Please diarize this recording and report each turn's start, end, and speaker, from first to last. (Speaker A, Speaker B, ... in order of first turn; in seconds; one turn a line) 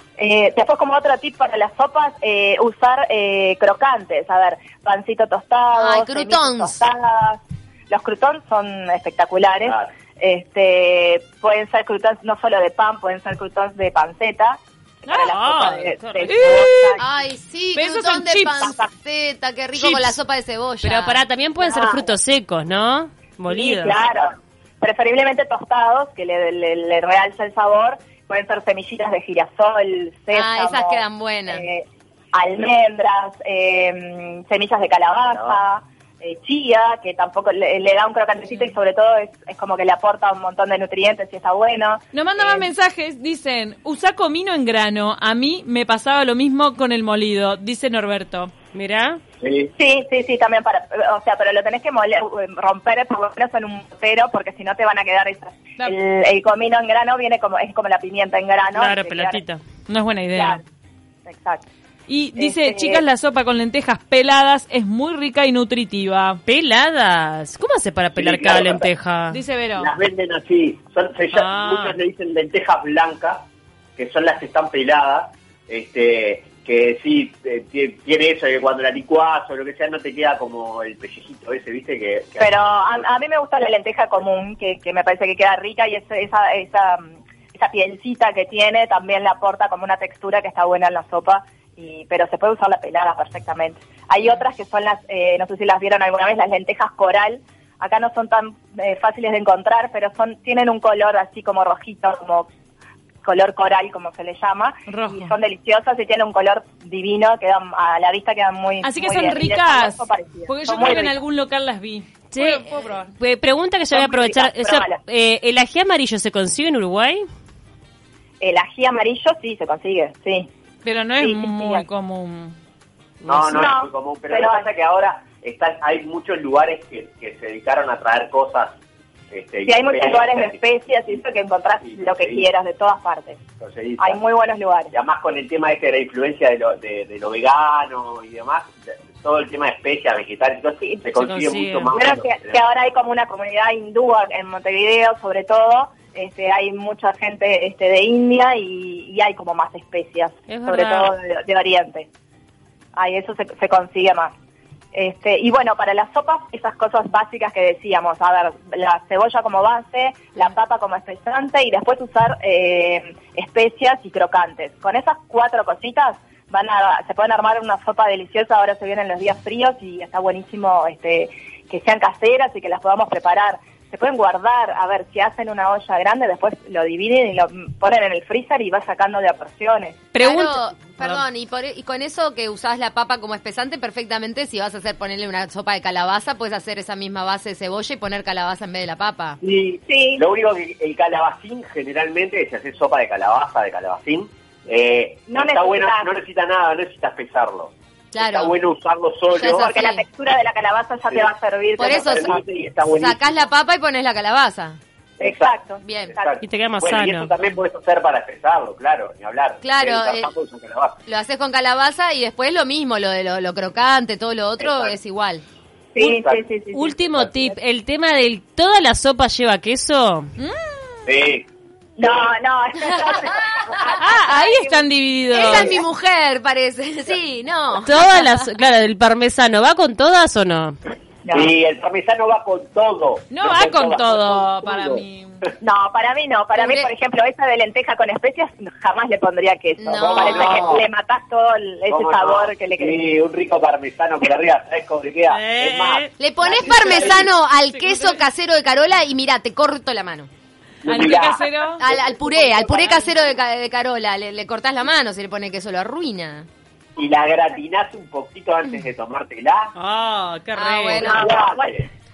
Speaker A: 0.2-17.0
Speaker B: 5.7-6.8
Speaker C: 9.6-9.9
Speaker D: 15.1-16.3
Speaker E: 16.2-17.0
Speaker B: 17.0-21.2
Speaker E: 17.8-18.8
Speaker E: 19.8-20.1
Speaker D: 20.8-24.0
Speaker A: 21.6-22.1
Speaker A: 23.5-42.7
Speaker B: 30.3-31.7
Speaker E: 42.1-48.5
Speaker D: 48.7-49.2
Speaker C: 49.4-49.7
Speaker A: 49.8-59.4
Speaker D: 58.7-59.6
Speaker E: 59.9-60.6
Speaker A: 60.3-60.6
Speaker A: 61.3-61.6
Speaker E: 62.1-66.4
Speaker A: 62.4-63.0
Speaker D: 66.5-69.4
Speaker C: 68.2-68.9
Speaker E: 69.3-69.9
Speaker C: 69.8-73.5
Speaker D: 71.3-72.0
Speaker C: 74.0-83.0
Speaker A: 82.4-102.5
Speaker A: 103.2-111.2
Speaker E: 104.9-105.3
Speaker E: 108.8-113.1
Speaker D: 112.3-112.7
Speaker D: 113.2-117.3
Speaker A: 113.9-115.0
Speaker A: 118.4-120.5
Speaker E: 120.8-122.5
Speaker A: 121.2-121.8
Speaker D: 123.2-123.7
Speaker C: 123.3-128.8
Speaker A: 123.5-124.7
Speaker C: 129.3-130.6
Speaker A: 129.7-133.4
Speaker C: 131.8-132.4
Speaker C: 133.6-134.2
Speaker A: 134.0-134.9
Speaker C: 134.9-142.6
Speaker D: 141.2-141.9
Speaker A: 141.9-152.1
Speaker D: 150.5-151.1
Speaker A: 152.9-154.3
Speaker A: 154.9-180.0
Speaker E: 180.2-180.6
Speaker B: 180.2-189.4
Speaker C: 189.4-199.7
Speaker A: 189.9-190.2
Speaker A: 195.3-196.1
Speaker B: 198.1-198.6
Speaker B: 199.3-200.0
Speaker A: 199.5-202.4
Speaker B: 201.8-202.3
Speaker C: 201.9-203.3
Speaker B: 203.0-204.8
Speaker C: 205.2-205.6
Speaker A: 205.2-206.4
Speaker B: 205.8-206.2
Speaker C: 206.2-211.0
Speaker D: 206.4-207.3
Speaker B: 209.6-210.3
Speaker B: 211.1-215.4
Speaker C: 214.6-215.0
Speaker A: 215.9-217.0
Speaker C: 216.0-216.4
Speaker D: 216.7-220.3
Speaker E: 220.4-220.8
Speaker C: 221.1-221.5
Speaker A: 222.0-224.8
Speaker E: 223.9-225.8
Speaker B: 225.3-228.5
Speaker D: 227.8-230.8
Speaker C: 231.3-235.0
Speaker E: 233.3-235.4
Speaker A: 235.6-243.0
Speaker B: 236.6-236.9
Speaker B: 239.8-240.8
Speaker C: 239.9-240.8
Speaker C: 241.9-247.3
Speaker D: 245.3-246.1
Speaker B: 246.2-250.3
Speaker E: 247.7-248.2
Speaker C: 250.8-253.2
Speaker E: 250.8-251.8
Speaker B: 251.8-256.5
Speaker C: 257.0-259.7
Speaker D: 259.8-261.1
Speaker B: 260.6-261.3
Speaker A: 260.9-261.8
Speaker C: 261.1-261.9